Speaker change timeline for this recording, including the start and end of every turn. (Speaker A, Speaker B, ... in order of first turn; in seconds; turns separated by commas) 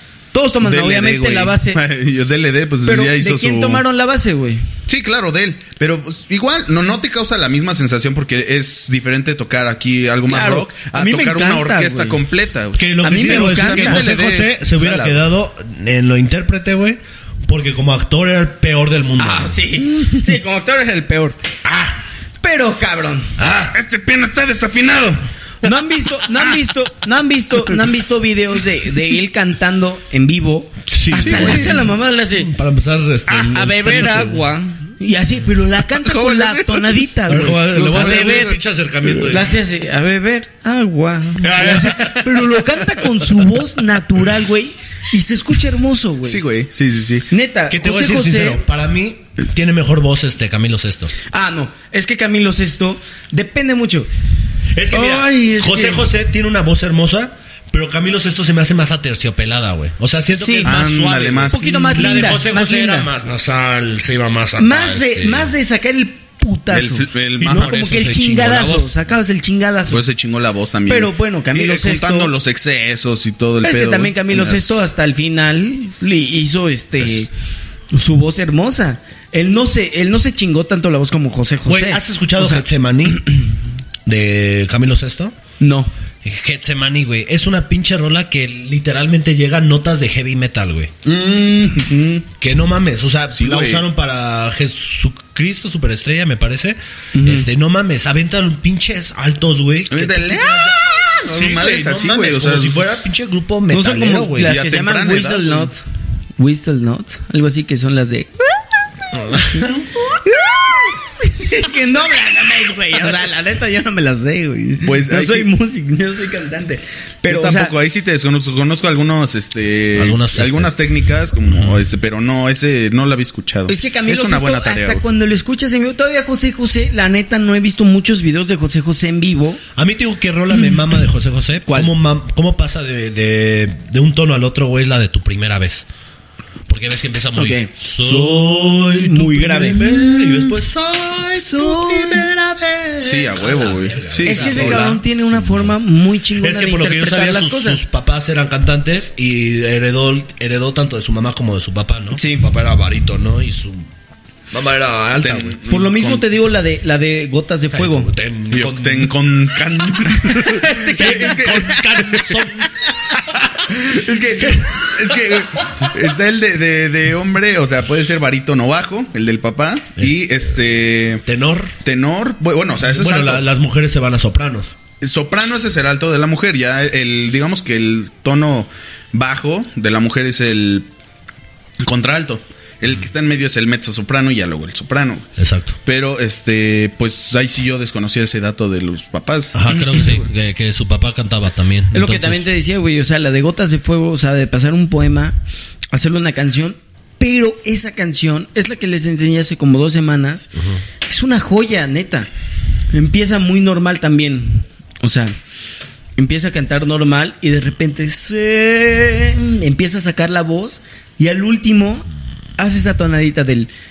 Speaker A: 0.3-1.8, Speaker B: 0.6-3.8, Speaker A: 2.8-4.6, Speaker B: 4.9-15.2, Speaker A: 10.3-12.2, Speaker C: 12.8-19.6, Speaker A: 13.0-14.1, Speaker A: 19.2-21.4, Speaker C: 21.7-21.9, Speaker A: 22.4-23.3, Speaker C: 23.4-23.7, Speaker B: 23.6-25.2, Speaker A: 25.6-32.5, Speaker C: 30.9-34.5, Speaker B: 31.2-31.8, Speaker B: 33.3-33.5, Speaker A: 33.5-38.6, Speaker B: 36.0-37.0, Speaker C: 37.3-39.6, Speaker B: 37.9-38.5, Speaker A: 39.2-46.4, Speaker B: 41.4-42.5, Speaker B: 46.2-47.3, Speaker A: 47.3-48.6, Speaker C: 47.7-51.1, Speaker A: 51.3-54.1, Speaker C: 54.7-65.5, Speaker A: 54.9-56.0, Speaker A: 60.3-60.7, Speaker B: 60.6-61.7, Speaker A: 61.5-63.1, Speaker A: 64.6-70.0, Speaker B: 66.7-68.0, Speaker C: 67.4-68.9, Speaker B: 69.9-74.8, Speaker A: 70.9-72.3, Speaker A: 73.6-77.3, Speaker A: 77.9-82.6, Speaker C: 81.7-83.3, Speaker C: 84.0-85.3, Speaker A: 85.6-85.9, Speaker C: 86.2-90.9, Speaker B: 91.0-92.2, Speaker C: 92.4-104.5, Speaker B: 93.3-93.8, Speaker A: 97.1-97.5, Speaker B: 99.9-102.8, Speaker A: 103.7-105.8, Speaker B: 104.4-105.7, Speaker A: 106.4-108.5, Speaker A: 109.3-117.7, Speaker B: 114.8-115.5, Speaker B: 117.3-125.0, Speaker C: 120.0-120.7, Speaker C: 121.5-121.8, Speaker A: 123.7-129.6, Speaker C: 129.8-135.8, Speaker A: 131.7-131.9, Speaker C: 136.7-145.7, Speaker A: 137.3-140.5, Speaker A: 141.3-142.3, Speaker B: 143.0-144.9, Speaker A: 144.2-147.8, Speaker C: 146.4-153.9, Speaker A: 152.2-152.4, Speaker C: 154.5-155.6, Speaker B: 155.2-156.3, Speaker A: 155.7-158.1, Speaker C: 157.7-159.1, Speaker B: 158.5-162.4, Speaker A: 160.1-161.8, Speaker C: 160.9-162.7, Speaker A: 163.7-165.0, Speaker B: 164.7-171.2, Speaker C: 171.2-171.7, Speaker B: 171.8-173.4, Speaker C: 172.9-174.7, Speaker B: 175.0-180.9, Speaker B: 181.8-185.3, Speaker C: 185.4-185.8, Speaker B: 185.8-189.6, Speaker C: 189.5-192.4, Speaker A: 191.9-195.4, Speaker A: 195.9-200.5, Speaker C: 200.6-200.8, Speaker A: 201.1-202.3, Speaker A: 202.9-205.4, Speaker A: 206.2-212.1, Speaker A: 212.6-213.7